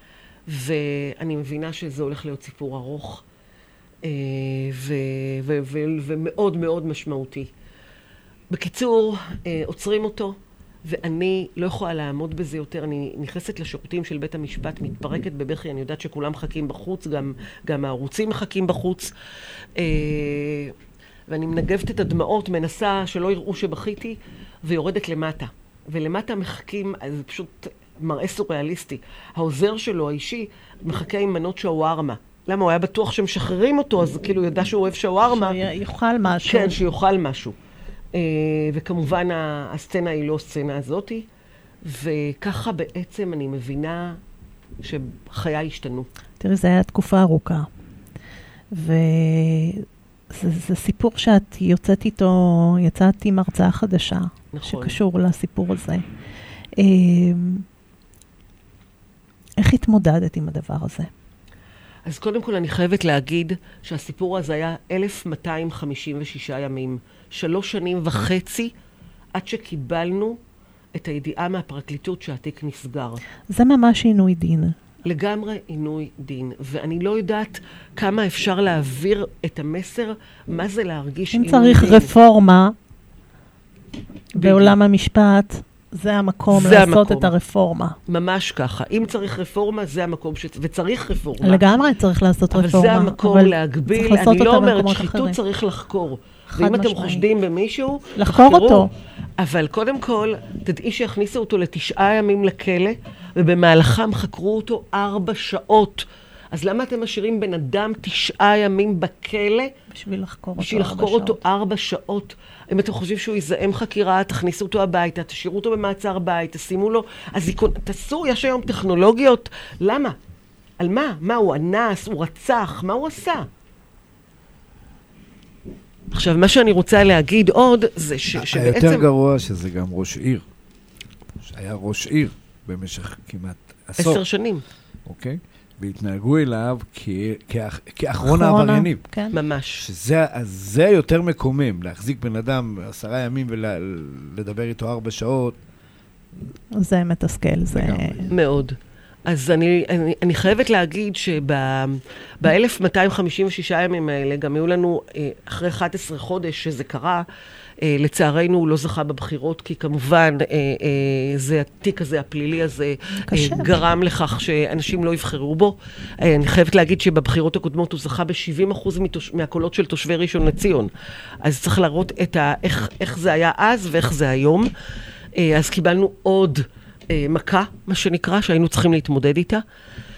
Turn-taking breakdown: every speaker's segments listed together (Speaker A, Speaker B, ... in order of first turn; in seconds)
Speaker A: 0.5-3.2, 4.0-7.5, 8.5-19.1, 19.8-20.8, 21.3-35.6, 36.4-37.6, 38.1-41.3, 41.8-44.2, 44.8-46.1, 54.5-55.0, 62.1-68.7, 69.3-70.4, 71.0-73.2, 75.1-82.1, 84.4-84.8, 86.5-87.3, 88.1-91.6, 92.5-98.9, 99.4-109.7, 110.6-120.2, 120.8-123.5, 126.1-129.1, 134.0-134.6, 139.3-139.8, 148.3-148.8, 149.3-157.3, 157.8-170.9, 171.4-174.7, 175.4-179.6
Speaker B: 35.3-36.8, 46.4-47.7, 48.7-56.0, 56.8-57.7, 59.6-61.1, 73.5-74.8, 81.3-82.8, 84.4-88.0, 91.4-95.4, 96.5-97.2, 98.2-98.9, 109.9-111.4, 138.2-139.4, 146.8-148.3, 163.2-163.7
Speaker C: 128.4-130.4, 131.4-134.2, 135.1-139.0, 139.8-145.6